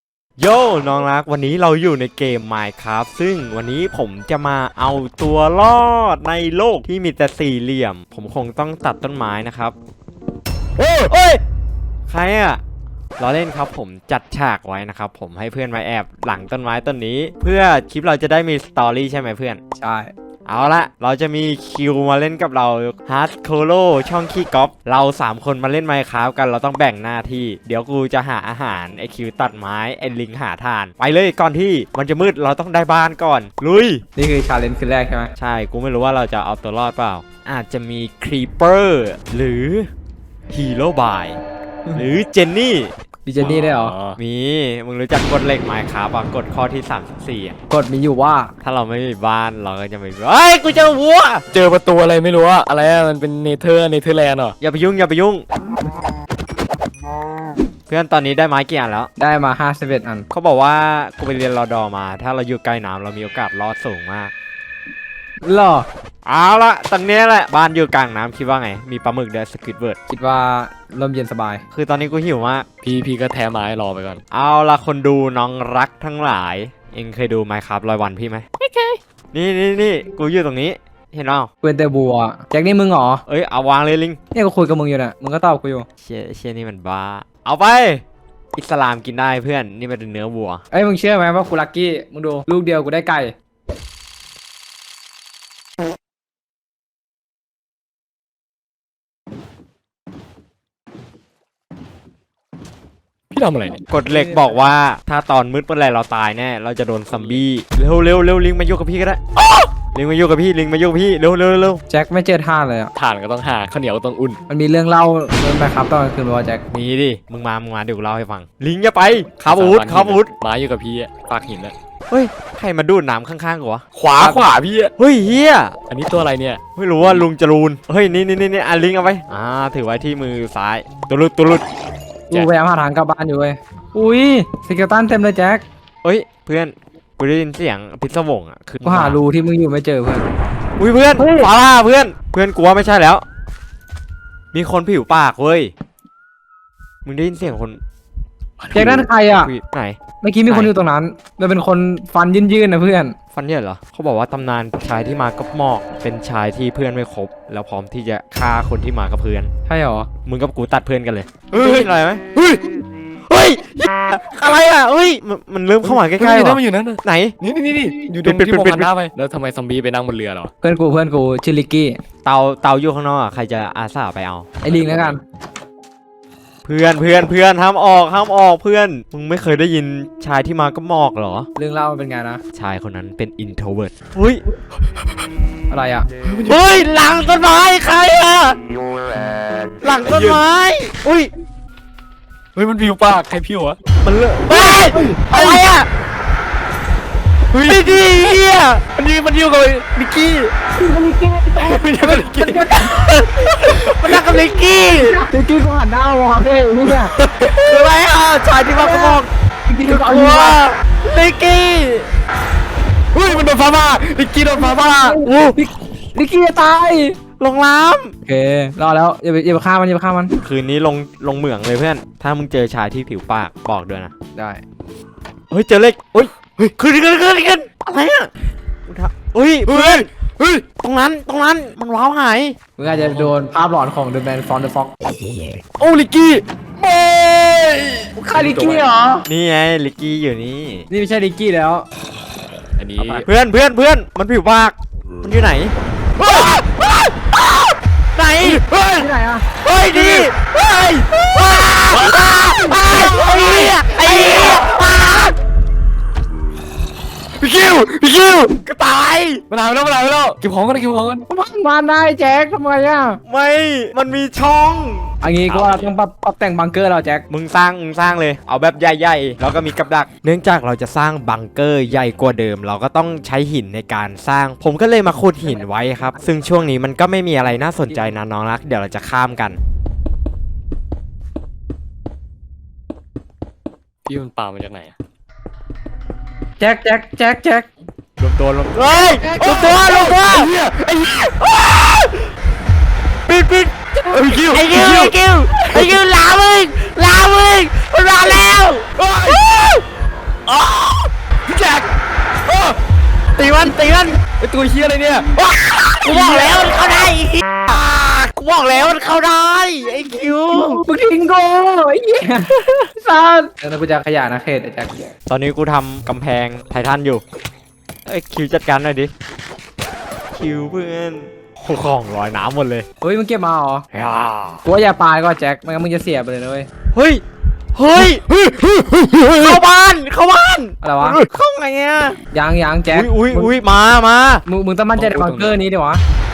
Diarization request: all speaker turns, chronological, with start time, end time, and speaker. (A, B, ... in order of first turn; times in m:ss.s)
0:00.4-0:09.7 A
0:10.8-0:11.1 B
0:11.0-0:11.4 A
0:12.1-0:12.6 A
0:13.2-0:19.6 A
0:19.8-0:20.1 C
0:20.5-0:34.0 A
0:34.2-0:35.3 C
0:35.4-0:39.9 A
0:40.5-0:41.4 A
0:41.9-0:42.9 A
0:43.2-0:43.9 C
0:43.4-0:44.2 B
0:44.2-0:47.6 A
0:47.7-0:48.5 C
0:48.6-0:51.4 A
0:51.5-0:54.6 B
0:54.6-0:55.4 A
0:57.9-0:59.1 A
0:59.2-1:00.3 C
1:00.3-1:04.3 A
1:05.4-1:05.9 C
1:06.2-1:10.0 A
1:10.1-1:11.6 C
1:11.7-1:12.6 A
1:12.8-1:14.2 B
1:14.3-1:18.5 A
1:18.6-1:19.0 B
1:19.3-1:21.5 A
1:21.6-1:23.2 C
1:23.3-1:24.2 A
1:24.3-1:25.8 C
1:26.0-1:28.0 A
1:28.5-1:30.6 A
1:30.7-1:33.3 C
1:43.3-1:43.8 B
1:43.9-1:49.2 A
1:44.0-1:44.6 C
1:49.9-1:51.8 A
1:51.9-1:52.9 C
1:52.9-1:54.4 B
1:54.5-1:56.6 C
1:56.7-2:00.3 A
1:59.4-2:01.7 B
2:02.1-2:03.8 A
2:03.9-2:04.9 B
2:05.0-2:05.8 A
2:05.9-2:06.6 B
2:06.8-2:11.6 A
2:12.3-2:15.6 C
2:16.0-2:19.2 A
2:18.8-2:20.3 C
2:20.8-2:23.2 A
2:21.2-2:21.5 C
2:24.5-2:25.7 A
2:27.0-2:27.8 A
2:28.6-2:29.1 B
2:28.7-2:29.5 C
2:29.3-2:30.7 A
2:30.2-2:33.1 C
2:33.3-2:39.5 A
2:39.7-2:40.1 C
2:40.2-2:42.2 A
2:41.5-2:42.8 B
2:43.3-2:47.3 A
2:45.8-2:50.5 B
2:48.2-2:48.9 A
2:50.6-2:52.0 C
2:52.2-2:54.4 A
2:54.6-2:55.2 C
2:56.6-3:01.5 A
3:01.6-3:02.4 C
3:02.5-3:04.4 A
3:05.7-3:06.1 C
3:06.2-3:06.6 B
3:06.4-3:08.6 A
3:09.8-3:11.3 A
3:10.0-3:10.4 B
3:12.5-3:13.8 B
3:14.0-3:15.9 A
3:14.5-3:15.4 C
3:15.3-3:15.6 B
3:17.5-3:18.2 B
3:17.6-3:18.8 A
3:18.9-3:20.5 B
3:20.8-3:22.9 C
3:21.6-3:22.9 B
3:22.7-3:25.2 A
3:23.8-3:24.1 B
3:24.9-3:27.1 C
3:27.2-3:27.8 B
3:27.3-3:29.3 A
3:28.7-3:30.6 C
3:29.9-3:32.1 A
3:33.1-3:35.2 B
3:34.5-3:37.2 C
3:35.2-3:35.6 A
3:37.4-3:38.1 A
3:38.2-3:40.3 C
3:40.4-3:44.1 A
3:44.3-3:44.6 C
3:45.5-3:48.3 A
3:48.8-3:50.1 A
3:49.7-3:50.6 B
3:50.8-3:52.6 A
3:52.8-3:55.0 C
3:52.9-3:53.3 B
3:55.6-3:58.9 B
3:58.2-3:59.2 C
3:59.2-4:00.8 A
4:00.9-4:01.9 C
4:02.8-4:03.3 B
4:03.0-4:05.7 A
4:06.2-4:07.7 B
4:08.1-4:08.6 A
4:08.4-4:09.1 B
4:09.0-4:09.4 C
4:09.6-4:14.8 B
4:09.6-4:15.3 A
4:12.4-4:14.4 C
4:17.4-4:18.5 B
4:18.6-4:19.4 A
4:19.5-4:21.2 B
4:21.3-4:23.2 C
4:23.3-4:25.1 A
4:25.2-4:27.2 C
4:25.5-4:25.9 B
4:27.3-4:39.6 A
4:44.1-4:44.9 B
4:46.6-4:47.7 C
4:48.2-4:52.2 B
4:48.7-4:50.5 A
4:49.2-4:49.8 C
4:53.3-4:59.8 A
4:54.1-4:56.0 B
4:59.0-4:59.8 B
5:00.5-5:00.9 A
5:01.4-5:01.9 B
5:02.4-5:02.8 B
5:03.4-5:04.2 A
5:04.4-5:06.6 B
5:06.0-5:10.8 A
5:10.5-5:15.1 C
5:15.3-5:17.2 A
5:18.0-5:19.1 A
5:20.3-5:22.8 A
5:23.0-5:23.9 C
5:23.9-5:24.6 A
5:24.6-5:26.7 C
5:26.9-5:27.2 A
5:27.7-5:28.2 A
5:28.0-5:29.6 B
5:29.3-5:32.2 A
5:30.8-5:31.2 C
5:32.3-5:33.5 C
5:32.9-5:34.4 A
5:34.4-5:36.0 C
5:35.0-5:35.6 B